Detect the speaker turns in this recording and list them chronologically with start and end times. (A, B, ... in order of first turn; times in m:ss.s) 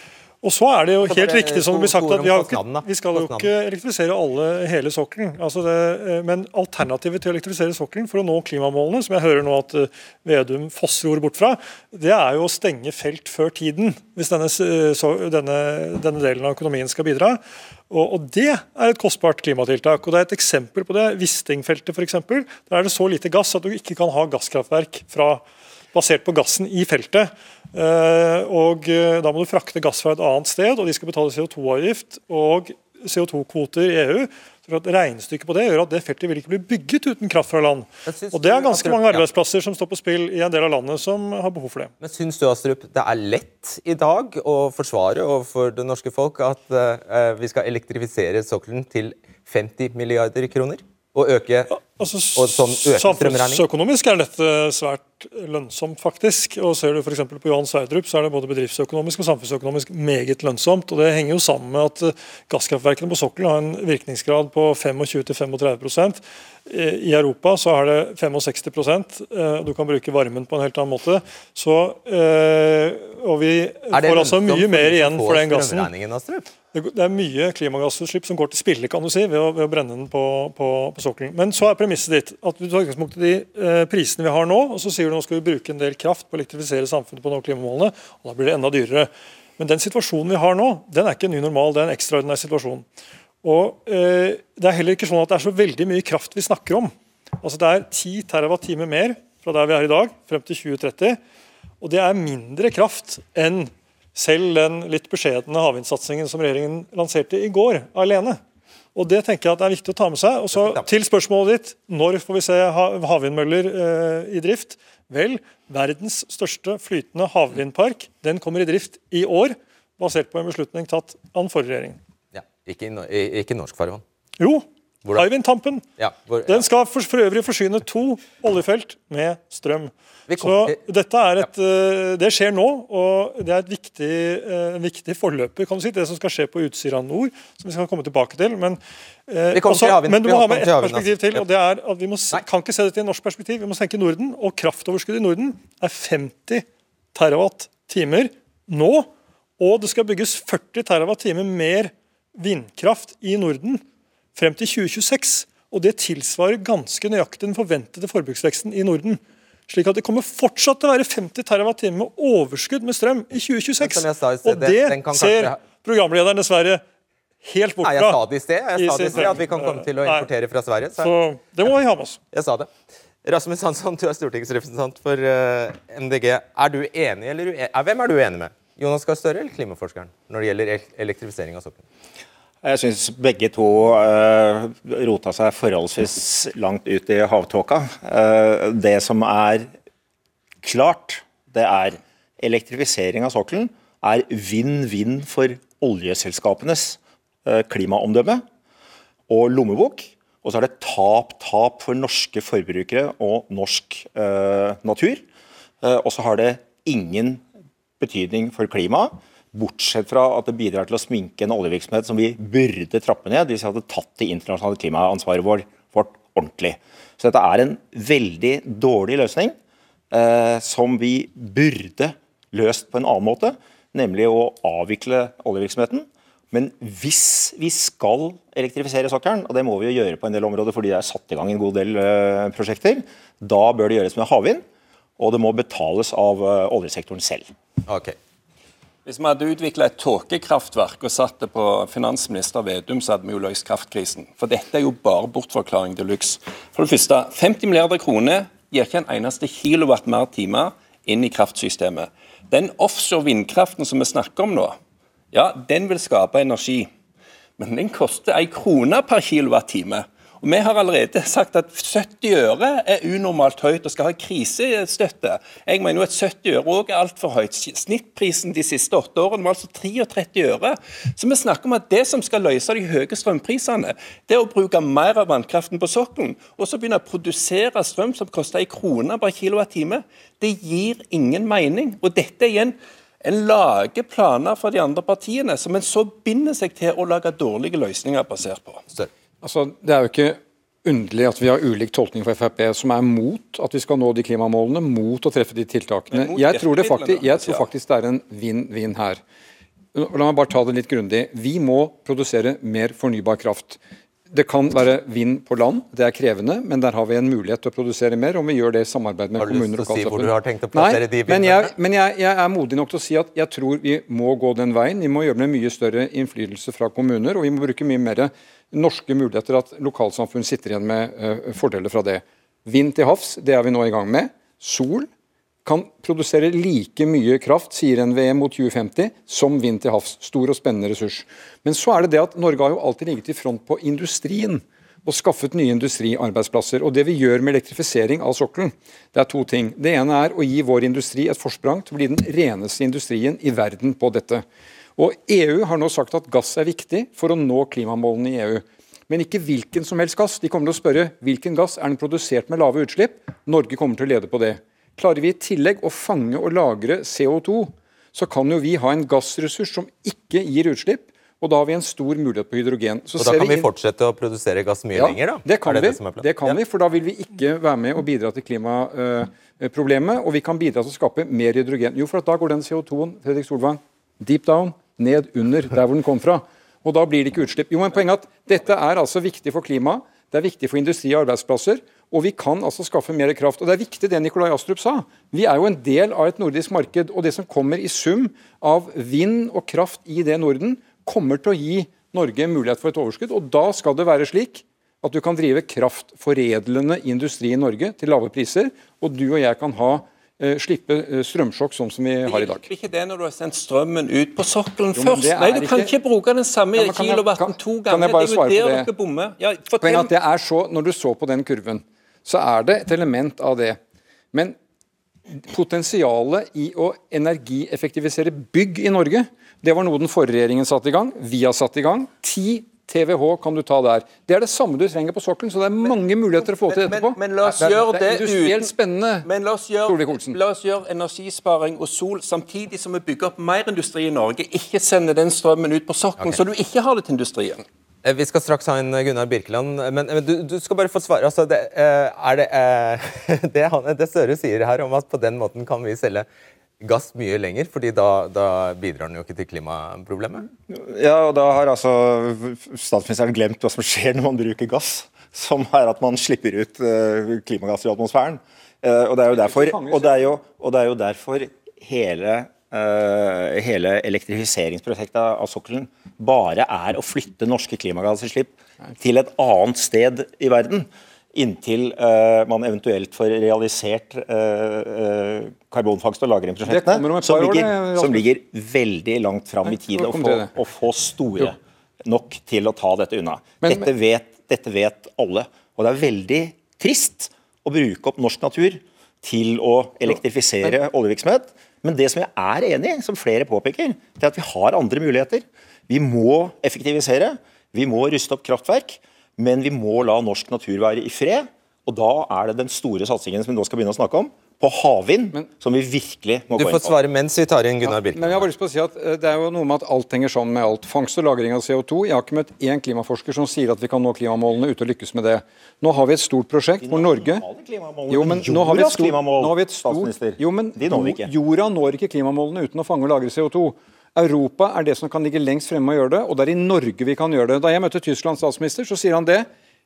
0:00.4-0:41.9 A
0:01.0-0:03.5 B
0:38.1-0:39.3 B
0:42.0-0:51.8 B
0:51.7-1:15.9 A
0:52.4-0:53.6 B
1:13.9-1:16.5 B
1:16.7-1:32.9 A
1:33.4-1:41.2 A
1:41.8-1:48.4 A
1:49.0-2:02.0 A
1:50.5-1:50.9 B
2:02.3-2:04.0 B
2:04.4-2:05.8 A
2:06.0-2:06.7 B
2:06.5-2:33.8 A
2:10.3-2:10.8 B
2:19.5-2:21.4 B
2:34.4-2:46.8 A
2:43.8-2:45.6 B
2:47.4-2:48.2 A
2:47.8-2:51.1 B
2:48.8-2:50.3 A
2:51.0-2:52.2 A
2:52.3-2:52.7 B
2:53.2-3:01.8 B
3:02.6-3:09.7 C
3:10.6-3:18.4 C
3:19.3-3:25.2 C
3:25.8-3:27.4 C
3:28.0-3:39.6 C
3:40.1-3:54.6 C
3:55.2-3:57.5 C
3:57.9-3:58.2 B
3:59.0-4:14.8 D
4:15.3-4:16.9 D
4:17.6-4:48.8 D
4:49.4-4:59.2 E
4:56.1-4:57.7 D
4:59.9-5:03.8 E
5:04.3-5:25.1 E
5:09.4-5:11.7 B
5:25.6-5:44.4 E
5:45.0-6:03.7 E
6:03.2-6:06.6 B
6:05.0-6:42.7 E
6:42.3-6:50.1 D
6:45.0-6:45.9 E
6:46.8-6:48.9 E
6:49.8-6:53.8 E
6:55.4-7:09.3 E
7:06.4-7:17.6 D
7:09.8-7:10.4 E
7:18.0-7:26.3 B
7:26.8-7:30.5 B
7:30.7-8:27.0 C
7:39.3-7:40.3 E
7:56.7-7:58.3 E
7:59.6-8:00.6 E
8:03.6-8:03.9 E
8:26.6-8:28.5 B
8:27.8-8:37.4 E
8:36.8-8:41.3 C
8:38.1-8:49.5 E